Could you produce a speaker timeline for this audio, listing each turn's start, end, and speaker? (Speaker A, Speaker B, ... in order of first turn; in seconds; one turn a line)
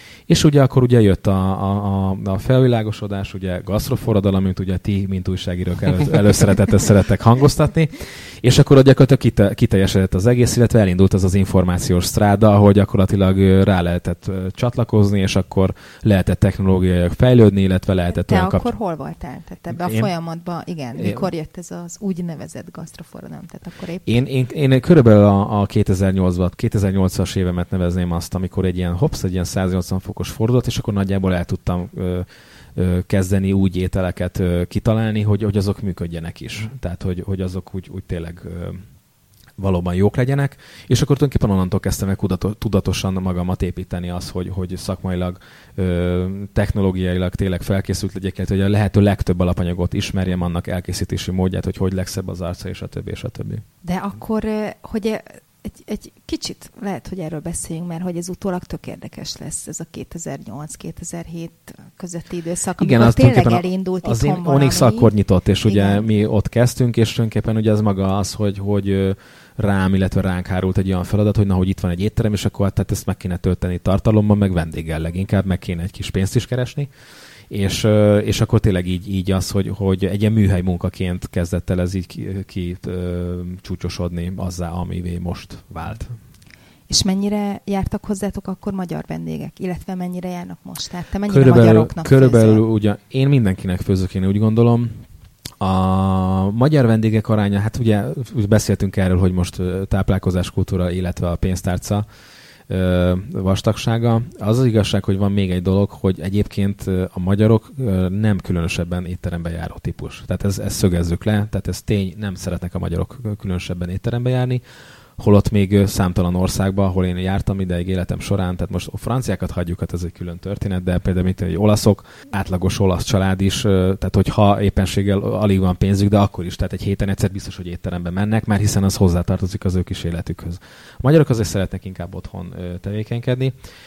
Speaker A: 0.3-18.7
Speaker B: 18.1-24.1
Speaker A: 19.7-20.1
Speaker A: 20.9-21.3
Speaker A: 24.0-38.8
Speaker A: 39.6-53.6
Speaker B: 53.8-65.1
Speaker A: 62.8-76.9
Speaker B: 65.6-66.0
Speaker A: 77.5-86.2
Speaker B: 86.9-92.6
Speaker A: 91.3-95.0
Speaker A: 95.6-102.0
Speaker A: 102.7-114.6
Speaker A: 115.2-133.5